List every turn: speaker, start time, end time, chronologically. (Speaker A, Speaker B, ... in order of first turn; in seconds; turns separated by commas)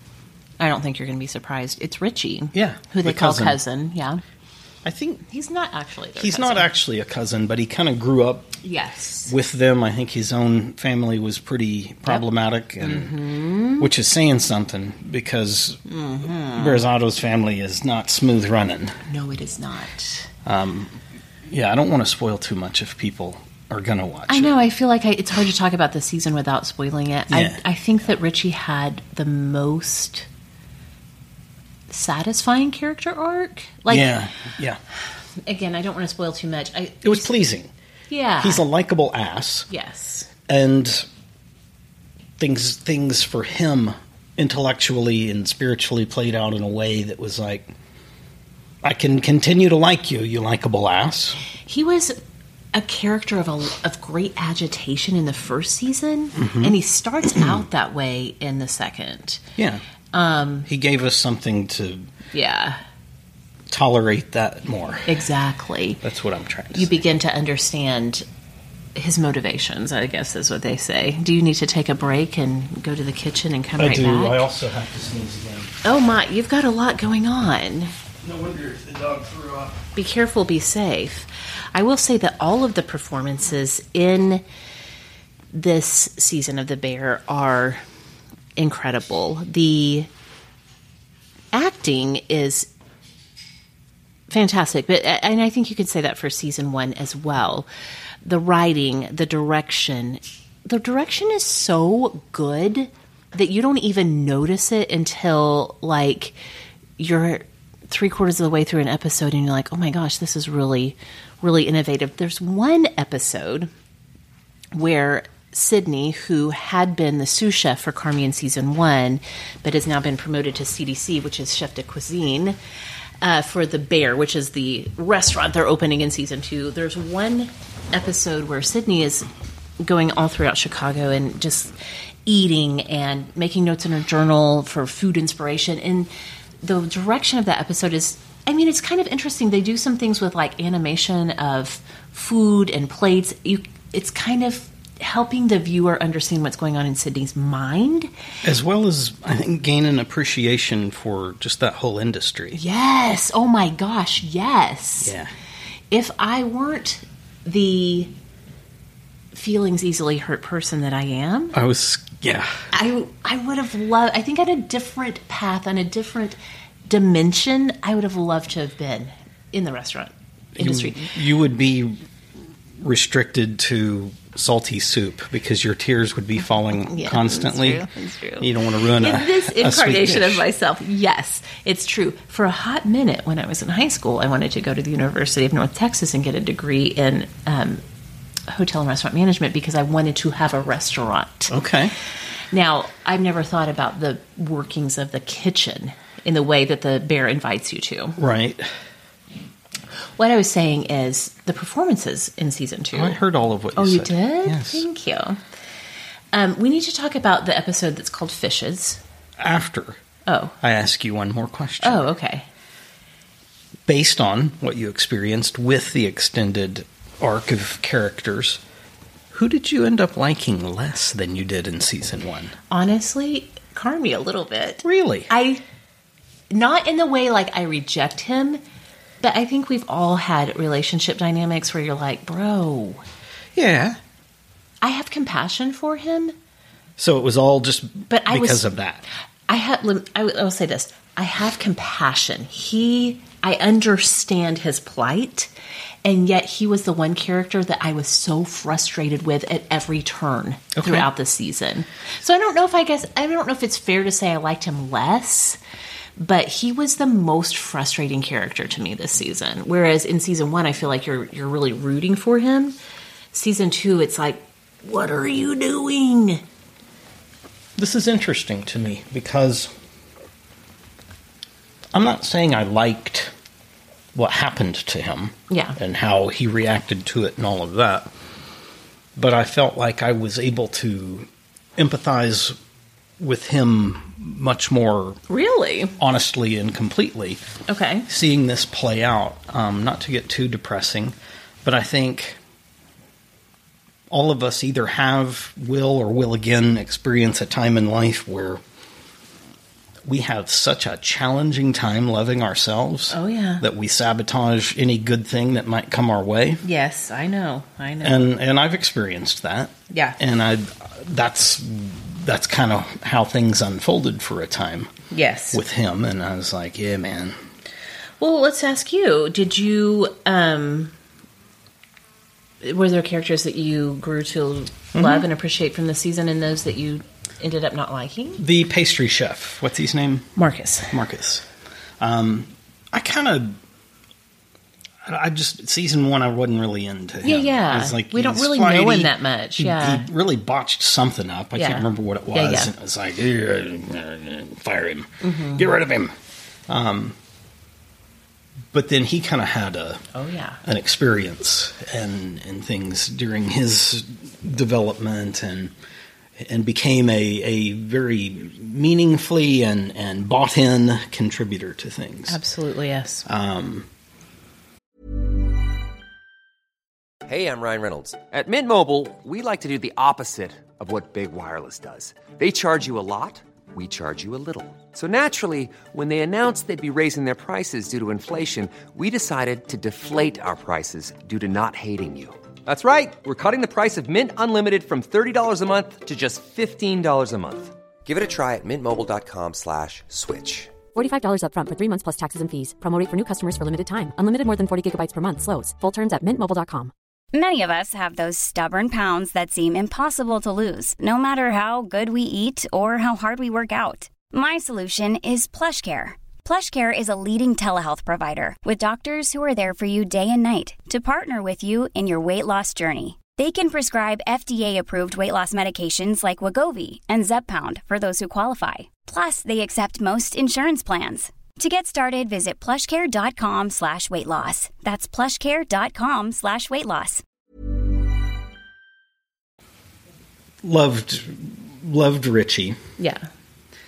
Speaker A: 0.6-4.2, Speaker B: 2.5-3.6, Speaker B: 4.8-5.2, Speaker A: 5.3-6.7, Speaker B: 6.2-8.6, Speaker A: 8.6-9.3, Speaker B: 9.2-13.1, Speaker A: 12.8-13.9, Speaker B: 13.8-15.8, Speaker A: 15.9-16.9, Speaker B: 16.5-19.0, Speaker A: 19.1-20.3, Speaker B: 20.4-24.6, Speaker A: 24.3-30.3, Speaker B: 27.3-27.6, Speaker A: 31.9-34.2, Speaker B: 33.9-34.8, Speaker A: 35.4-37.3, Speaker B: 37.0-37.7, Speaker A: 38.1-38.6, Speaker B: 38.4-39.7, Speaker A: 39.7-40.3, Speaker B: 40.5-41.1, Speaker B: 42.4-47.7, Speaker B: 48.8-51.4, Speaker A: 51.6-52.2, Speaker A: 52.7-59.4, Speaker B: 56.4-56.7, Speaker B: 57.3-57.6, Speaker B: 59.6-59.8, Speaker A: 60.1-60.7, Speaker B: 60.6-62.1, Speaker A: 62.3-62.8, Speaker B: 63.7-65.2, Speaker A: 65.1-66.0, Speaker B: 66.0-67.0, Speaker A: 66.7-68.2, Speaker A: 68.9-74.4, Speaker B: 73.8-75.7, Speaker A: 75.8-77.9, Speaker B: 78.2-79.9, Speaker A: 79.9-84.4, Speaker A: 85.5-87.8, Speaker A: 88.6-90.1, Speaker A: 91.5-92.7, Speaker A: 94.3-97.7, Speaker A: 98.2-106.4, Speaker A: 107.0-113.7, Speaker A: 114.7-122.6, Speaker A: 123.2-129.3, Speaker A: 129.8-131.7, Speaker A: 132.2-136.1, Speaker A: 136.6-148.1, Speaker B: 148.4-152.6, Speaker A: 152.5-155.1, Speaker B: 155.0-155.3, Speaker A: 155.9-158.1, Speaker A: 159.3-161.6, Speaker B: 161.5-162.7, Speaker A: 162.7-171.1, Speaker B: 170.6-172.0, Speaker B: 172.8-177.9, Speaker A: 176.8-187.8, Speaker B: 178.4-180.4, Speaker A: 188.5-191.5, Speaker B: 191.5-191.9, Speaker A: 192.5-198.2, Speaker B: 198.2-198.7, Speaker A: 200.2-203.2, Speaker B: 202.9-204.8, Speaker A: 203.7-205.4, Speaker A: 206.3-209.0, Speaker B: 209.4-210.0, Speaker A: 210.2-210.6, Speaker B: 210.6-212.1, Speaker A: 211.8-212.4, Speaker B: 213.9-218.6, Speaker B: 219.3-222.5, Speaker A: 222.7-225.6, Speaker B: 224.8-225.3, Speaker A: 226.5-228.6, Speaker A: 229.2-233.0, Speaker B: 233.6-234.0, Speaker A: 234.8-236.3, Speaker B: 237.0-239.0, Speaker A: 238.1-238.7, Speaker A: 239.5-245.5, Speaker A: 246.0-255.6, Speaker B: 250.8-251.1, Speaker A: 256.2-262.8, Speaker A: 263.3-266.4, Speaker B: 267.8-269.7, Speaker B: 271.9-273.3, Speaker B: 274.1-278.1, Speaker A: 275.5-275.8, Speaker B: 279.1-282.6, Speaker B: 283.2-285.2, Speaker A: 285.3-285.9, Speaker B: 286.0-287.4, Speaker A: 287.7-288.1, Speaker B: 288.1-292.4, Speaker B: 294.1-298.6, Speaker B: 300.1-306.6, Speaker A: 303.1-303.6, Speaker A: 306.6-308.3, Speaker B: 308.0-314.9, Speaker A: 309.9-310.2, Speaker A: 315.1-315.6, Speaker B: 315.5-317.4, Speaker A: 318.2-320.9, Speaker A: 322.6-328.4, Speaker B: 324.9-325.3, Speaker B: 328.4-330.3, Speaker A: 330.4-330.9, Speaker B: 330.9-331.4, Speaker B: 332.0-333.6, Speaker B: 335.0-346.1, Speaker A: 337.2-340.1, Speaker A: 341.6-342.7, Speaker A: 345.2-345.7, Speaker B: 346.7-347.1, Speaker B: 348.7-350.0, Speaker A: 350.1-350.6, Speaker B: 350.6-355.7, Speaker B: 356.4-362.4, Speaker A: 362.3-363.2, Speaker B: 363.2-363.9, Speaker C: 367.2-390.8, Speaker D: 390.9-396.9, Speaker E: 397.3-427.2, Speaker B: 430.6-432.8, Speaker A: 433.0-433.2